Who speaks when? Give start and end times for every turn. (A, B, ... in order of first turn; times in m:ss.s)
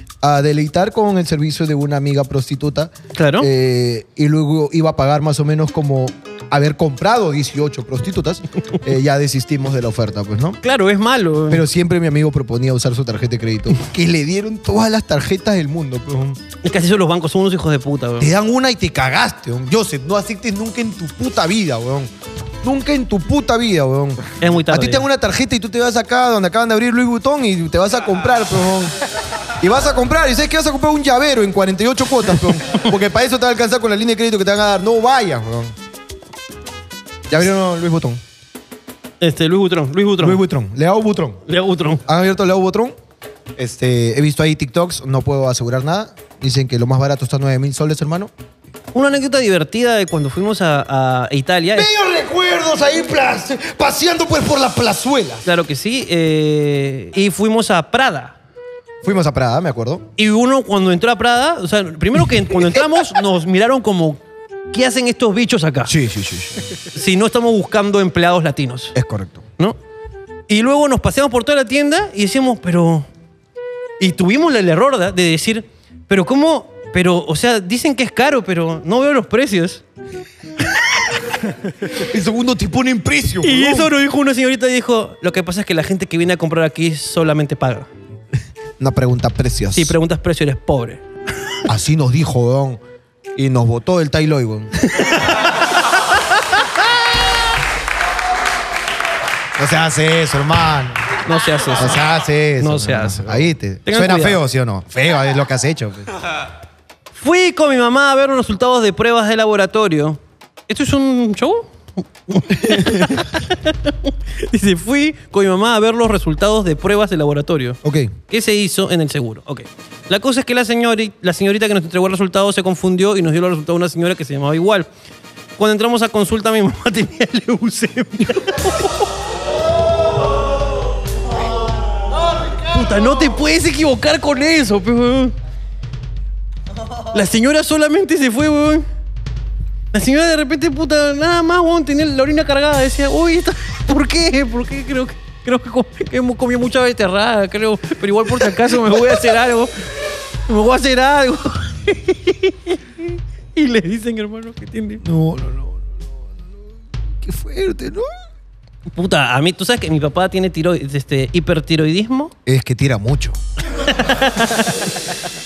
0:00.2-0:10.6 A
0:03.1-0:03.5 B
0:10.6-0:11.6 B
0:11.5-0:16.4 A
0:16.6-0:18.3 B
0:18.2-0:22.1 A
0:22.6-0:28.9 A
0:24.4-0:25.0 B
0:29.6-0:35.7 A
0:37.3-0:38.2 A
0:39.2-0:40.4 B
0:40.2-0:41.4 A
0:41.5-0:42.0 B
0:42.0-0:42.9 A
0:43.6-0:48.3 A
0:48.9-0:51.9 B
0:51.7-0:55.4 A
0:55.4-0:58.3 B
0:59.0-1:00.0 A
1:00.2-1:04.2 B
1:04.7-1:05.9 B
1:05.8-1:06.5 A
1:06.9-1:08.9 B
1:08.9-1:09.4 A
1:10.5-1:13.1 B
1:14.0-1:19.8 B
1:21.9-1:23.9 A
1:23.4-1:27.9 B
1:28.8-1:29.9 A
1:29.7-1:31.0 B
1:31.6-1:32.8 A
1:33.4-1:34.7 A
1:34.9-1:35.3 B
1:39.6-1:41.0 A
1:41.2-1:42.0 B
1:41.8-1:46.1 A
1:42.6-1:44.4 B
1:47.2-2:04.9 B
1:52.6-1:53.2 A
1:57.8-1:58.1 A
2:05.6-2:09.1 B
2:12.6-2:15.3 B
2:17.1-2:18.8 B
2:19.9-2:29.9 B
2:30.5-2:35.0 B
2:35.0-2:36.5 A
2:37.2-2:38.1 A
2:38.9-2:42.3 B
2:42.4-2:43.4 A
2:43.8-2:44.9 B